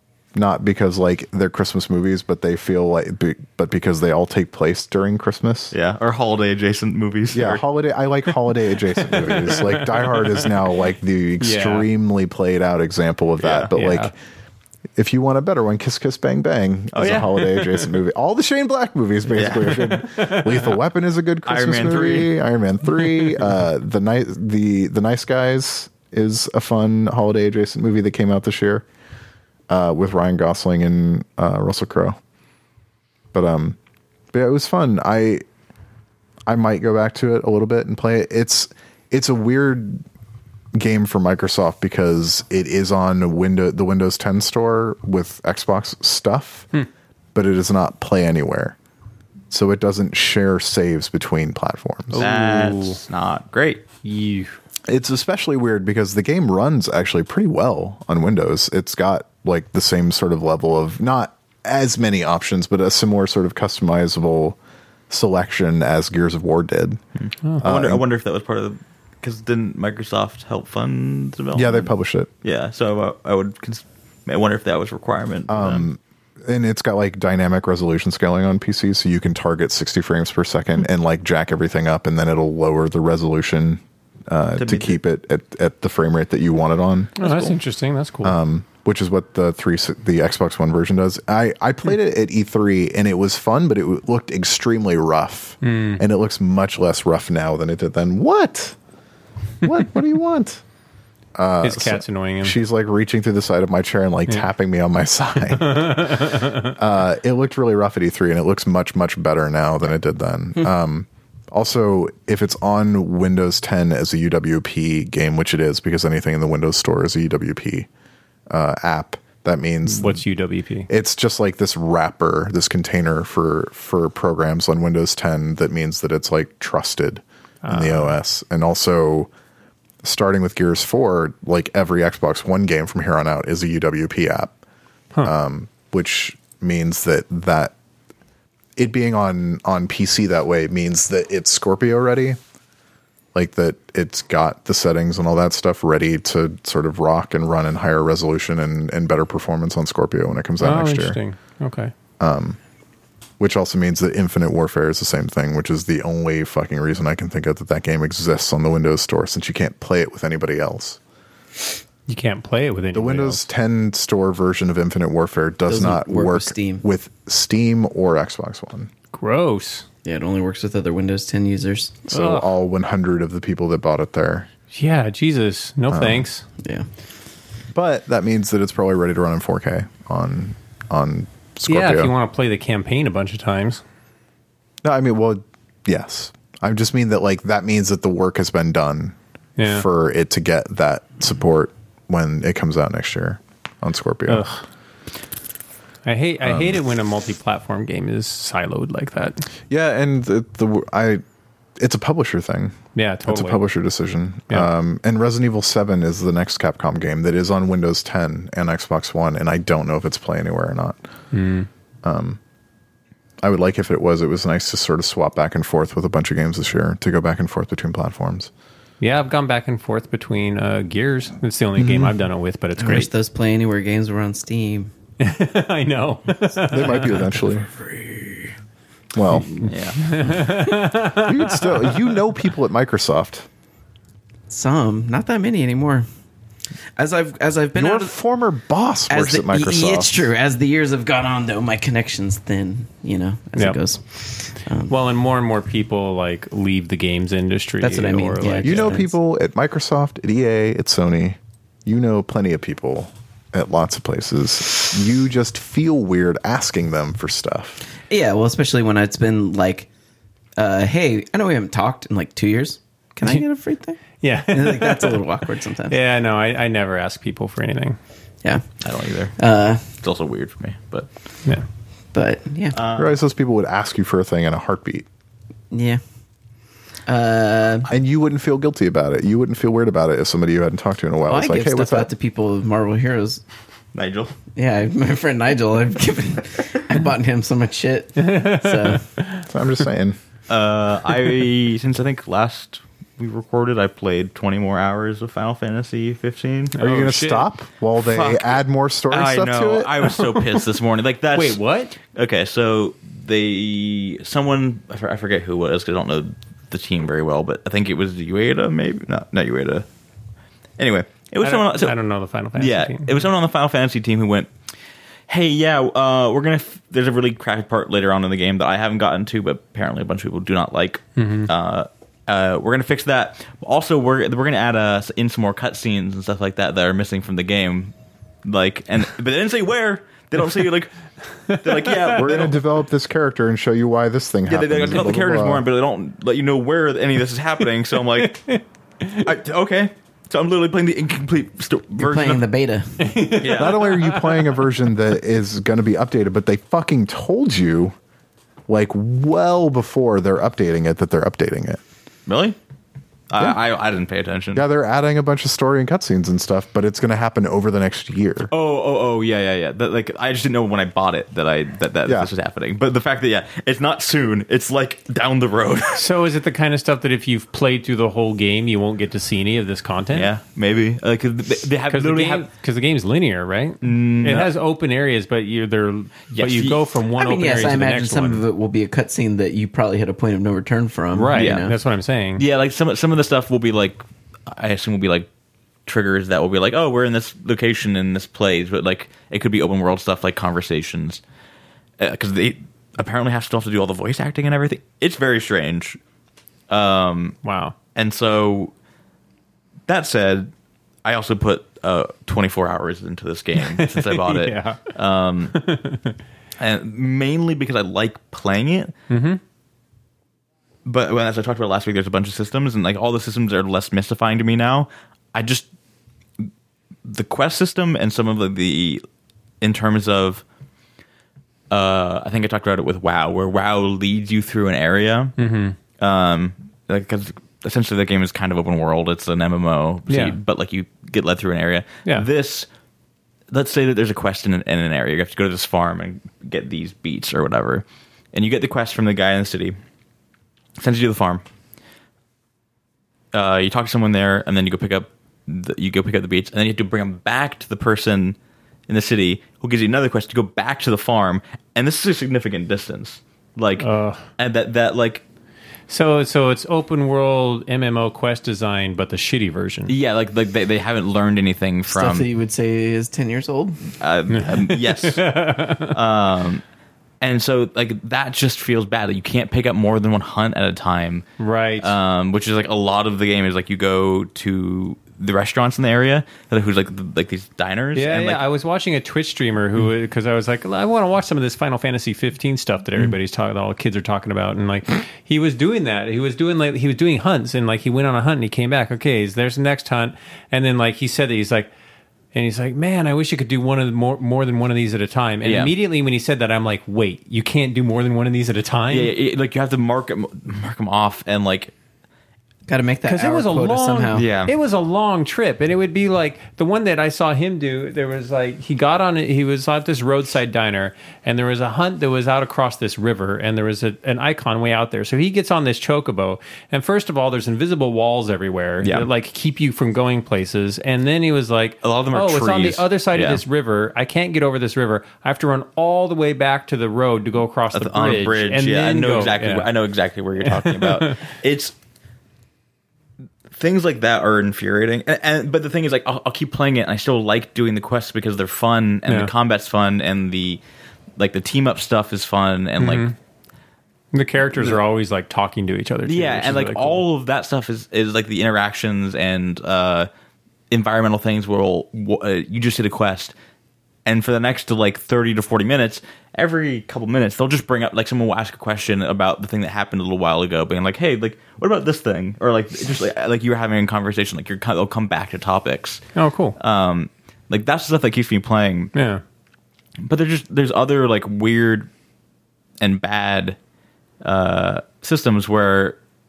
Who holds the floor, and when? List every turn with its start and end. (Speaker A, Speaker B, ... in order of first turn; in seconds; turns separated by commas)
Speaker A: 0.3-5.7, Speaker B: 5.7-7.6, Speaker A: 7.3-14.1, Speaker C: 9.1-10.4, Speaker C: 11.4-11.9, Speaker B: 13.4-13.7, Speaker C: 13.7-14.1, Speaker A: 14.9-28.9, Speaker B: 16.9-17.3, Speaker C: 17.0-17.9, Speaker B: 19.3-19.9, Speaker C: 19.9-20.7, Speaker B: 21.4-22.4, Speaker C: 22.9-23.4, Speaker A: 29.7-32.2, Speaker A: 33.3-33.8, Speaker A: 34.3-35.4, Speaker A: 36.5-40.0, Speaker A: 40.7-46.7, Speaker A: 47.3-48.8, Speaker A: 49.5-52.2, Speaker C: 52.1-53.0, Speaker B: 52.2-53.8, Speaker C: 54.0-54.6, Speaker A: 54.9-64.6, Speaker A: 65.1-67.0, Speaker B: 67.2-71.9, Speaker A: 67.6-68.0, Speaker A: 71.5-72.3, Speaker B: 72.4-75.9, Speaker A: 75.5-87.6, Speaker B: 84.6-85.0, Speaker C: 87.2-88.4, Speaker A: 88.2-98.8, Speaker C: 95.6-96.0, Speaker A: 99.6-100.6, Speaker A: 101.4-117.9, Speaker C: 101.6-102.6, Speaker C: 105.6-106.7, Speaker A: 118.5-120.2, Speaker C: 119.8-120.9, Speaker A: 120.9-129.3, Speaker C: 127.6-128.2, Speaker A: 130.0-134.6, Speaker A: 135.2-137.7, Speaker A: 138.8-142.4, Speaker A: 143.3-151.2, Speaker C: 150.6-151.9, Speaker A: 152.2-152.6, Speaker A: 153.4-161.0, Speaker C: 162.1-163.4, Speaker A: 162.9-168.9, Speaker D: 165.7-166.8, Speaker C: 169.1-169.9, Speaker D: 170.0-172.1, Speaker A: 172.1-174.5, Speaker C: 172.1-172.5, Speaker C: 174.7-176.4, Speaker A: 175.9-176.3, Speaker A: 177.7-182.1, Speaker C: 181.7-183.8, Speaker A: 184.8-194.4, Speaker C: 189.6-189.9, Speaker C: 194.3-194.6, Speaker C: 196.1-199.5, Speaker A: 196.4-196.8, Speaker A: 199.7-201.2, Speaker A: 201.8-211.0, Speaker C: 202.9-203.6, Speaker C: 211.3-211.7, Speaker A: 212.0-212.4, Speaker A: 213.4-218.5, Speaker C: 219.0-223.1, Speaker D: 221.8-222.2, Speaker D: 222.8-224.9, Speaker C: 225.2-227.3, Speaker A: 226.6-227.7, Speaker D: 227.8-228.5, Speaker A: 229.1-229.6, Speaker C: 229.3-232.0, Speaker B: 229.7-230.2, Speaker A: 231.1-233.5, Speaker D: 234.5-236.1, Speaker D: 237.0-238.1, Speaker A: 237.7-240.3, Speaker D: 239.1-244.9, Speaker C: 243.6-249.1, Speaker D: 247.8-249.1, Speaker A: 248.6-257.8, Speaker D: 258.1-259.9, Speaker D: 260.6-265.9, Speaker C: 264.1-265.2, Speaker C: 265.9-268.0, Speaker D: 268.4-268.8, Speaker B: 268.8-271.1, Speaker D: 269.4-269.9, Speaker D: 272.1-272.7, Speaker B: 272.7-273.1, Speaker A: 272.9-275.1, Speaker D: 275.7-276.0, Speaker D: 277.1-277.9, Speaker A: 277.9-282.1, Speaker D: 281.3-283.4, Speaker B: 283.9-284.3, Speaker D: 284.6-289.1, Speaker C: 288.2-289.5, Speaker A: 289.4-290.2, Speaker B: 290.5-296.7, Speaker C: 296.7-297.5, Speaker A: 296.8-299.9, Speaker B: 297.9-309.9, Speaker C: 300.0-300.6, Speaker C: 301.3-301.9, Speaker B: 310.8-312.0, Speaker C: 311.4-313.2, Speaker B: 312.6-314.5, Speaker B: 315.3-327.9, Speaker C: 321.1-321.5, Speaker B: 328.4-330.9, Speaker C: 331.5-332.1, Speaker B: 331.5-332.6, Speaker A: 332.1-335.6, Speaker B: 334.4-338.4, Speaker C: 338.2-339.3, Speaker B: 339.2-342.4, Speaker D: 342.0-343.3, Speaker C: 343.0-344.6, Speaker B: 343.4-344.0, Speaker A: 343.5-347.9, Speaker A: 348.7-351.8, Speaker B: 352.3-352.6, Speaker B: 353.3-354.6, Speaker A: 354.6-358.5, Speaker B: 358.5-366.0, Speaker C: 365.9-370.3, Speaker B: 370.1-372.5, Speaker C: 371.9-378.4, Speaker B: 373.8-374.5, Speaker B: 376.3-376.8, Speaker D: 377.1-381.8, Speaker C: 381.1-382.4, Speaker B: 381.4-381.6, Speaker B: 382.4-385.3, Speaker B: 385.9-391.2, Speaker B: 392.0-396.0, Speaker B: 396.7-397.4, Speaker C: 397.4-397.7, Speaker B: 397.9-398.7, Speaker B: 399.9-400.5, Speaker B: 401.1-405.7, Speaker C: 403.6-404.9, Speaker C: 405.6-406.1, Speaker B: 406.6-408.9, Speaker C: 409.1-409.4, Speaker B: 410.8-415.7, Speaker B: 417.1-419.0, Speaker B: 419.6-420.4, Speaker B: 421.7-425.4, Speaker C: 425.4-425.8, Speaker B: 426.0-432.7, Speaker C: 430.1-430.4, Speaker B: 433.5-439.8, Speaker B: 440.8-441.4, Speaker B: 443.3-448.4, Speaker B: 448.9-455.2, Speaker C: 453.8-454.2, Speaker C: 455.9-459.9, Speaker B: 459.9-462.3, Speaker D: 461.9-463.9, Speaker B: 464.0-465.2, Speaker C: 464.3-465.9, Speaker B: 465.9-466.6, Speaker B: 467.2-471.3, Speaker C: 471.4-471.9, Speaker B: 471.8-478.4, Speaker C: 477.9-491.7, Speaker C: 492.3-499.1, Speaker B: 495.4-495.7, Speaker B: 498.9-501.7, Speaker D: 502.7-504.3, Speaker C: 503.1-529.7, Speaker B: 504.1-504.5, Speaker B: 518.8-519.1, Speaker B: 521.8-523.4, Speaker B: 527.7-531.7, Speaker C: 530.4-531.3, Speaker B: 533.5-540.6, Speaker B: 541.2-543.1, Speaker C: 542.8-543.1, Speaker C: 544.1-547.0, Speaker B: 546.0-550.1, Speaker B: 550.7-553.3, Speaker B: 554.0-568.9, Speaker C: 566.1-566.5, Speaker C: 568.9-569.2, Speaker B: 570.0-571.9, Speaker B: 572.8-573.6, Speaker B: 574.2-576.0